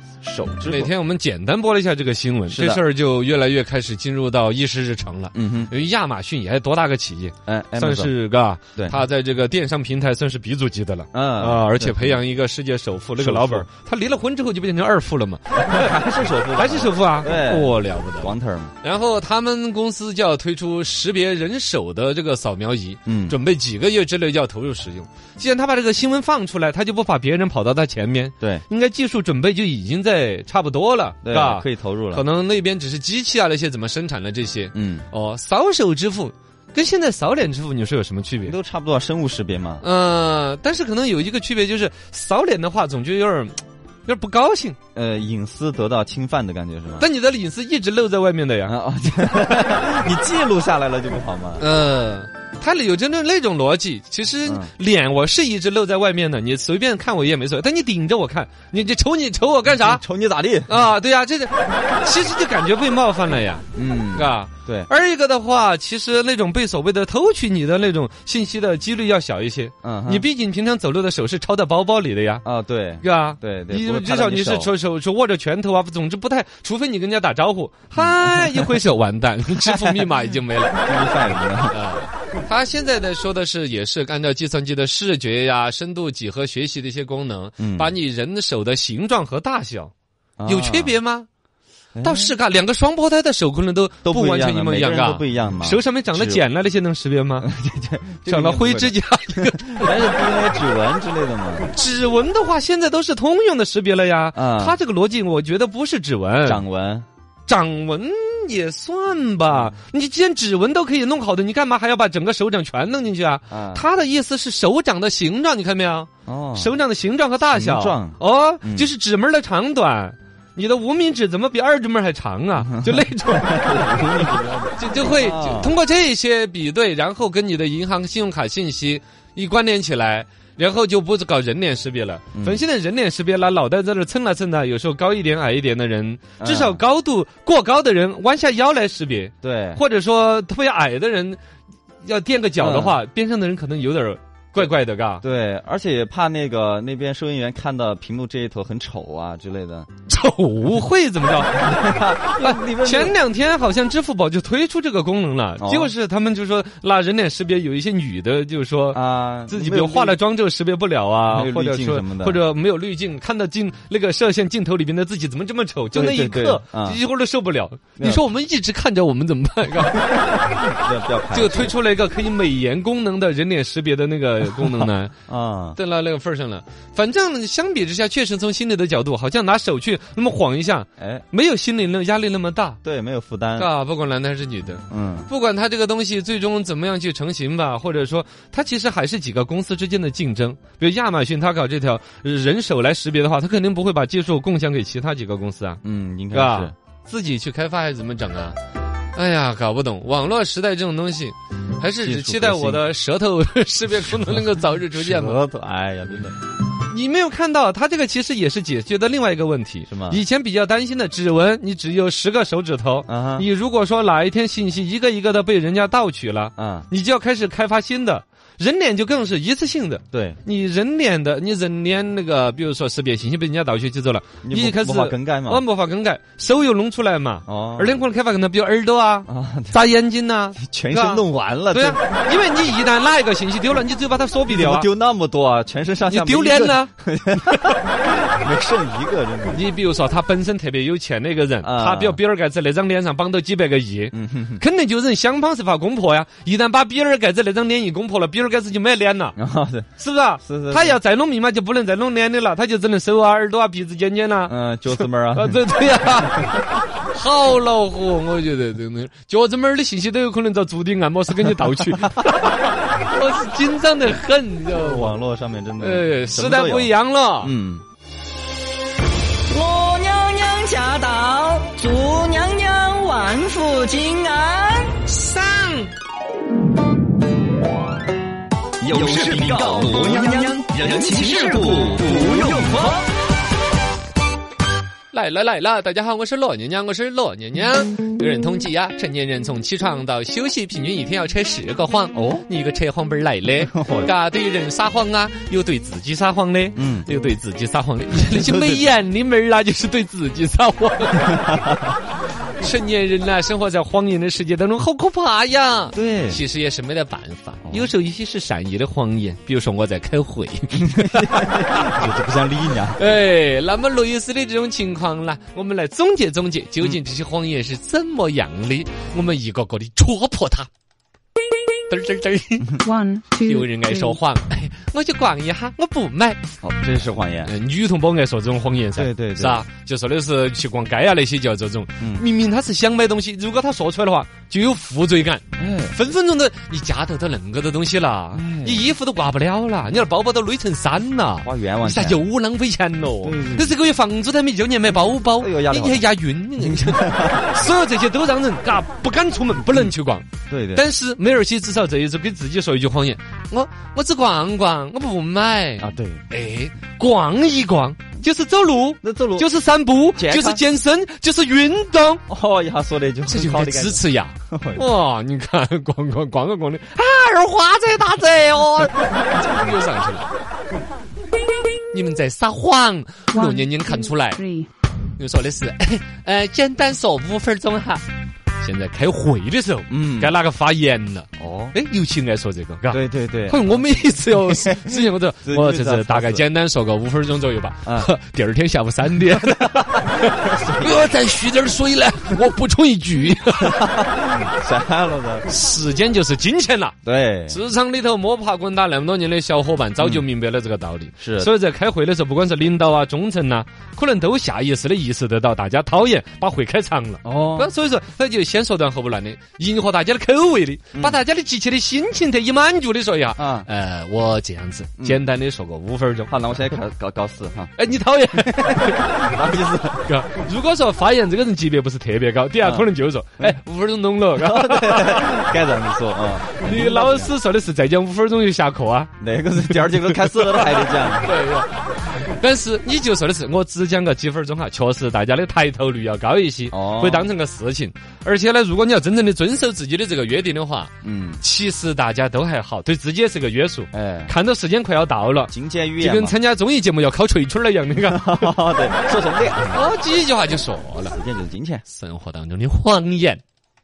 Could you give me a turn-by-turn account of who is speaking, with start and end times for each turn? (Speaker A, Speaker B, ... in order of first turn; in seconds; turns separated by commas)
Speaker A: 0.2-0.9, Speaker B: 0.6-15.9, Speaker A: 2.5-2.8, Speaker A: 5.3-5.7, Speaker A: 7.5-8.1, Speaker A: 11.1-12.2, Speaker A: 13.2-13.7, Speaker A: 15.6-18.7, Speaker B: 16.6-38.5, Speaker A: 23.1-23.4, Speaker A: 31.2-32.2, Speaker A: 34.7-35.1, Speaker A: 38.5-39.8, Speaker B: 39.8-44.8, Speaker A: 45.0-47.1, Speaker B: 47.0-48.8, Speaker A: 48.6-51.6, Speaker B: 51.6-60.0, Speaker A: 54.5-54.7, Speaker A: 59.8-60.7, Speaker B: 60.7-72.4, Speaker A: 63.7-64.9, Speaker A: 69.8-70.2, Speaker A: 72.5-74.7, Speaker B: 73.0-80.8, Speaker A: 78.0-78.8, Speaker A: 79.6-80.1, Speaker A: 80.8-81.8, Speaker B: 81.7-89.9, Speaker A: 87.6-87.9, Speaker A: 90.4-91.0, Speaker B: 90.5-91.3, Speaker A: 92.0-92.3, Speaker B: 92.0-97.5, Speaker A: 94.0-96.4, Speaker A: 97.4-101.7, Speaker B: 98.2-100.0, Speaker B: 101.7-106.6, Speaker A: 104.3-104.8, Speaker A: 106.5-107.1, Speaker B: 107.5-141.4, Speaker A: 113.5-113.8, Speaker A: 116.2-116.8, Speaker A: 117.5-118.9, Speaker A: 122.6-125.8, Speaker A: 132.3-132.6, Speaker A: 136.4-136.8, Speaker A: 139.4-139.8, Speaker B: 142.0-145.2, Speaker A: 142.6-143.0, Speaker A: 145.2-149.9, Speaker B: 150.1-151.9, Speaker A: 151.5-153.2, Speaker B: 152.4-170.0, Speaker A: 155.6-155.9, Speaker A: 158.9-160.2, Speaker A: 161.3-162.4, Speaker A: 165.9-167.0, Speaker A: 168.0-168.2, Speaker A: 169.8-171.8, Speaker B: 171.3-175.1, Speaker A: 174.5-175.8, Speaker B: 175.8-182.8, Speaker A: 181.0-181.2, Speaker A: 182.8-183.7, Speaker B: 183.6-195.8, Speaker A: 184.9-185.3, Speaker A: 195.8-196.7, Speaker B: 196.3-198.6, Speaker B: 199.1-205.4, Speaker A: 202.0-202.8, Speaker A: 204.9-206.4, Speaker B: 206.9-234.9, Speaker A: 209.9-210.2, Speaker A: 213.1-213.5, Speaker A: 216.6-216.9, Speaker A: 220.1-220.4, Speaker A: 224.4-225.6, Speaker A: 227.5-228.0, Speaker A: 229.3-229.8, Speaker A: 230.6-232.0, Speaker A: 234.5-239.6, Speaker B: 236.1-236.9, Speaker B: 239.5-249.4, Speaker A: 241.6-242.2, Speaker A: 244.1-244.6, Speaker A: 249.4-251.0, Speaker B: 250.0-265.1, Speaker A: 254.5-256.7, Speaker A: 262.0-262.4, Speaker A: 264.7-267.8, Speaker B: 265.8-267.5, Speaker C: 269.5-275.0, Speaker B: 275.1-275.9, Speaker D: 278.8-283.0, Speaker C: 279.4-282.9, Speaker B: 285.1-301.4, Speaker A: 292.1-292.4, Speaker A: 293.6-294.1, Speaker A: 296.8-297.1, Speaker A: 298.3-298.9, Speaker A: 301.2-302.0, Speaker B: 302.6-311.9, Speaker A: 305.9-306.4, Speaker A: 307.6-307.9, Speaker A: 310.8-313.0, Speaker B: 312.9-320.7, Speaker B: 321.9-322.8, Speaker E: 322.8-324.2, Speaker B: 323.4-326.4, Speaker A: 326.6-327.5, Speaker B: 327.4-362.2, Speaker A: 328.9-329.6, Speaker A: 332.0-332.2, Speaker A: 335.6-335.9, Speaker A: 338.3-338.9, Speaker A: 341.4-342.2, Speaker A: 343.2-343.8, Speaker A: 345.4-346.1, Speaker A: 346.6-347.5, Speaker A: 350.5-350.9, Speaker A: 355.8-356.2, Speaker A: 359.0-359.5, Speaker A: 360.1-360.6, Speaker A: 362.3-364.8, Speaker B: 363.3-370.3, Speaker B: 371.9-374.4, Speaker E: 373.3-374.7, Speaker B: 375.2-378.0, Speaker B: 378.6-393.9, Speaker A: 379.9-380.3, Speaker A: 381.4-381.8, Speaker A: 382.9-386.4, Speaker A: 387.9-388.1, Speaker A: 389.3-391.1, Speaker A: 393.6-395.5, Speaker B: 395.5-396.9, Speaker A: 397.0-397.6, Speaker B: 397.5-416.3, Speaker A: 400.0-400.3, Speaker A: 401.2-401.5, Speaker A: 407.2-407.7, Speaker A: 410.9-411.2, Speaker A: 413.4-413.7, Speaker A: 416.3-417.7, Speaker B: 417.8-419.3, Speaker A: 418.4-420.1, Speaker B: 420.0-425.4, Speaker A: 422.6-422.9, Speaker A: 424.4-427.3, Speaker B: 426.6-429.1, Speaker A: 429.2-431.3, Speaker B: 429.7-448.5, Speaker A: 436.7-437.3, Speaker A: 441.0-441.4, Speaker A: 443.9-444.3, Speaker A: 445.5-446.4, Speaker A: 447.9-449.9, Speaker B: 449.7-451.2, Speaker A: 451.1-451.9, Speaker B: 451.9-453.4